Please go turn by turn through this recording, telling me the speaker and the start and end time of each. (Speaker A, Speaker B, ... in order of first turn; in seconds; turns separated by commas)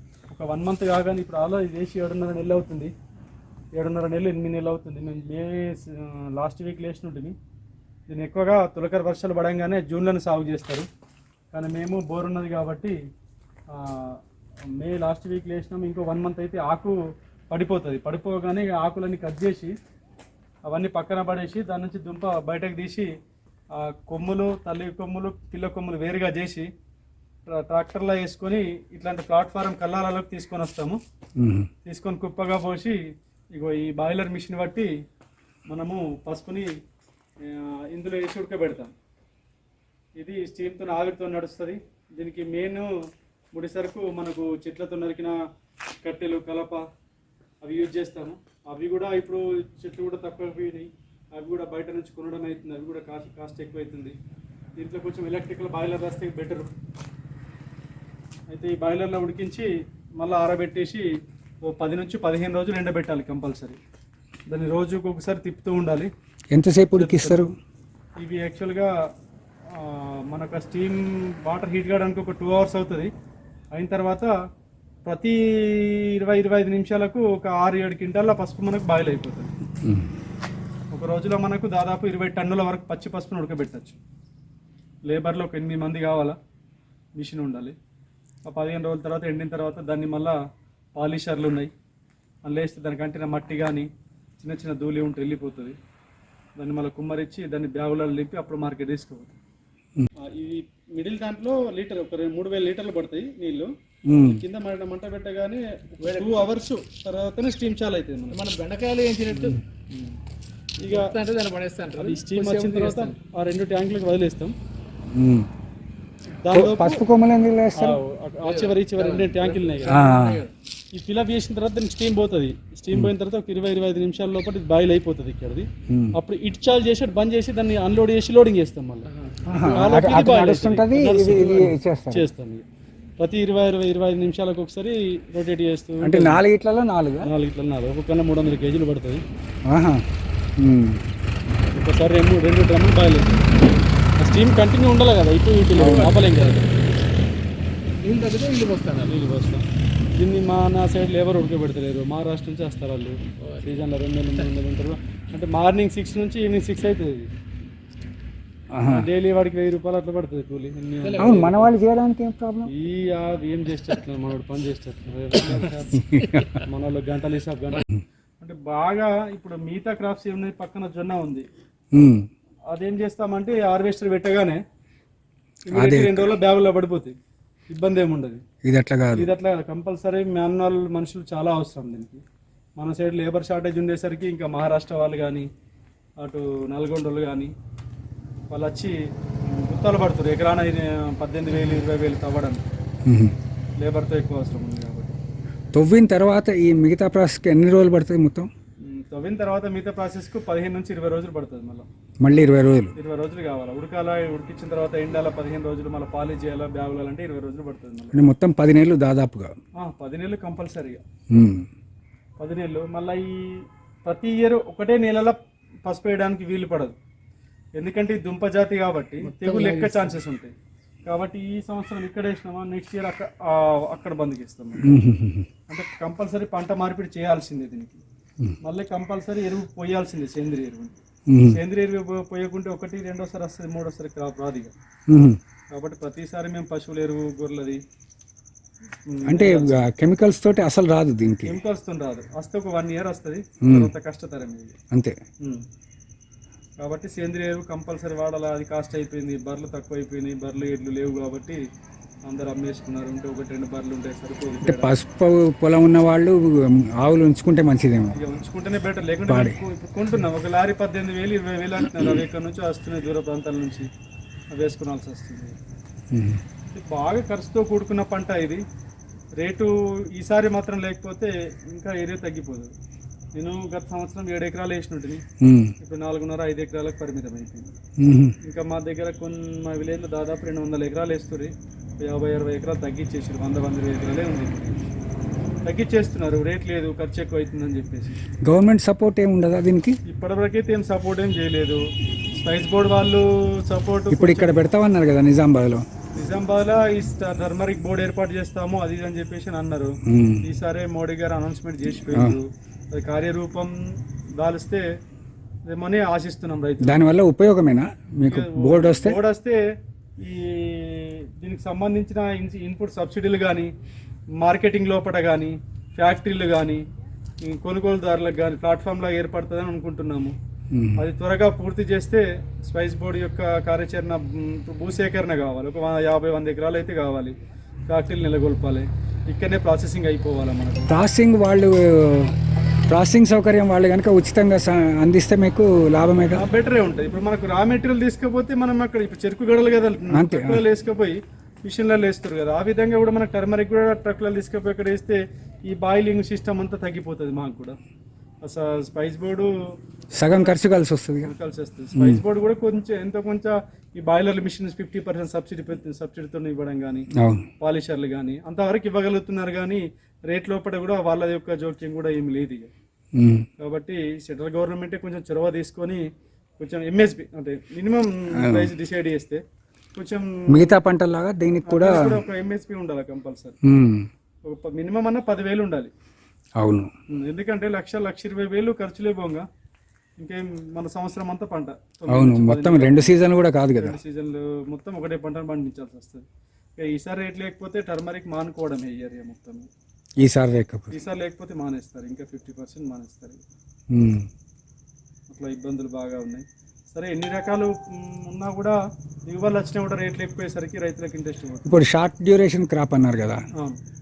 Speaker A: 0.3-2.9, Speaker A: 3.8-7.4, Speaker A: 8.1-10.9, Speaker A: 11.5-12.9, Speaker A: 13.7-14.2, Speaker A: 14.8-17.0, Speaker A: 17.5-19.7, Speaker A: 20.7-23.1, Speaker A: 23.8-26.7, Speaker A: 27.5-31.0, Speaker B: 31.4-31.7, Speaker A: 31.9-33.0, Speaker A: 33.5-34.9, Speaker A: 35.7-36.7, Speaker A: 37.5-38.9, Speaker A: 40.2-42.9, Speaker A: 43.5-45.4, Speaker A: 46.0-46.8, Speaker A: 47.6-54.2, Speaker A: 54.8-56.7, Speaker A: 58.5-61.1, Speaker A: 61.6-63.8, Speaker A: 64.5-66.1, Speaker B: 66.5-67.5, Speaker A: 66.9-67.4, Speaker A: 68.2-68.9, Speaker A: 69.7-73.1, Speaker A: 73.7-74.3, Speaker A: 75.0-79.5, Speaker B: 79.8-80.1, Speaker A: 80.9-84.0, Speaker A: 85.1-86.4, Speaker A: 87.2-87.8, Speaker A: 88.5-90.4, Speaker A: 91.0-91.7, Speaker A: 92.5-93.9, Speaker A: 94.4-95.8, Speaker A: 96.6-99.3, Speaker A: 100.2-108.4, Speaker B: 104.1-104.4, Speaker C: 106.0-106.5, Speaker C: 108.3-109.6, Speaker A: 109.9-110.2, Speaker C: 110.8-113.2, Speaker A: 110.8-111.1, Speaker A: 112.0-114.5, Speaker B: 115.1-115.5, Speaker A: 116.4-117.0, Speaker B: 116.5-118.0, Speaker A: 117.8-120.1, Speaker C: 118.4-120.5, Speaker B: 119.9-120.5, Speaker A: 120.9-132.6, Speaker B: 125.9-126.1, Speaker C: 129.1-129.9, Speaker B: 129.5-132.3, Speaker A: 133.2-136.4, Speaker B: 136.0-137.3, Speaker A: 137.2-139.2, Speaker B: 139.7-140.0, Speaker B: 140.6-141.0, Speaker A: 141.7-143.6, Speaker A: 144.2-146.7, Speaker B: 145.8-146.1, Speaker C: 145.9-146.2, Speaker C: 148.0-149.2, Speaker A: 149.1-149.6, Speaker A: 150.2-157.3, Speaker C: 153.4-153.7, Speaker B: 158.7-159.1, Speaker A: 158.9-161.7, Speaker C: 161.0-161.5, Speaker B: 161.2-162.7, Speaker A: 162.7-166.1, Speaker B: 165.5-166.5, Speaker A: 166.6-167.9, Speaker A: 168.4-171.5, Speaker B: 171.9-172.3, Speaker A: 172.7-174.6, Speaker A: 175.7-177.2, Speaker B: 175.7-176.3, Speaker A: 177.7-178.4, Speaker B: 178.7-179.3, Speaker A: 179.2-182.2, Speaker A: 182.8-185.5, Speaker A: 186.2-187.5, Speaker A: 188.5-188.9, Speaker A: 189.5-192.6, Speaker B: 193.1-193.3, Speaker A: 193.8-195.2, Speaker B: 195.7-198.5, Speaker A: 198.8-201.8, Speaker B: 202.2-202.9, Speaker A: 203.0-208.2, Speaker B: 208.1-209.5, Speaker A: 209.8-211.0, Speaker B: 211.3-211.7, Speaker A: 212.4-216.9, Speaker A: 217.8-220.5, Speaker C: 219.2-220.2, Speaker A: 221.1-225.0, Speaker B: 224.8-225.5, Speaker A: 225.7-228.0, Speaker A: 228.6-234.7, Speaker B: 231.3-231.6, Speaker B: 235.1-235.4, Speaker A: 235.7-237.8, Speaker A: 239.1-239.8, Speaker B: 239.3-241.6, Speaker A: 241.5-244.8, Speaker B: 243.6-243.9, Speaker A: 246.8-251.6, Speaker A: 252.3-255.0, Speaker B: 254.7-258.1, Speaker A: 258.1-263.9, Speaker B: 259.3-259.6, Speaker A: 264.5-265.6, Speaker B: 266.1-266.4, Speaker A: 266.7-268.6, Speaker A: 269.4-272.7, Speaker A: 273.4-275.2, Speaker B: 275.4-275.7, Speaker A: 275.8-277.7, Speaker B: 278.0-278.4, Speaker A: 278.4-284.8, Speaker A: 285.7-288.2, Speaker B: 288.4-290.0, Speaker A: 290.1-291.8, Speaker A: 292.4-294.6, Speaker B: 294.1-295.8, Speaker A: 296.2-303.7, Speaker B: 300.1-300.4, Speaker B: 302.1-302.4, Speaker A: 304.4-304.8, Speaker A: 305.7-307.0, Speaker B: 306.8-309.2, Speaker A: 308.3-309.6, Speaker A: 310.2-313.7, Speaker A: 314.4-316.8, Speaker A: 317.4-320.4, Speaker B: 320.7-321.0, Speaker A: 321.0-327.4, Speaker A: 327.9-330.9, Speaker B: 330.9-332.3, Speaker B: 332.9-336.4, Speaker A: 336.4-347.8, Speaker B: 340.1-340.6, Speaker A: 348.4-349.5, Speaker B: 350.1-351.3, Speaker A: 350.3-350.6, Speaker A: 351.2-357.1, Speaker B: 351.9-352.2, Speaker B: 357.2-357.5, Speaker A: 357.6-362.7, Speaker B: 363.2-363.4, Speaker A: 363.6-366.1, Speaker A: 366.6-369.4, Speaker B: 368.4-368.7, Speaker A: 369.9-370.8, Speaker B: 370.5-372.2, Speaker A: 371.6-373.6, Speaker B: 373.6-374.1, Speaker A: 374.4-375.9, Speaker B: 376.6-376.9, Speaker A: 377.1-379.4, Speaker A: 380.2-383.2, Speaker B: 382.1-384.0, Speaker A: 383.8-386.2, Speaker A: 386.8-389.7, Speaker B: 390.2-391.0, Speaker A: 390.9-393.4, Speaker B: 393.9-394.3, Speaker A: 395.3-401.8, Speaker B: 401.6-403.4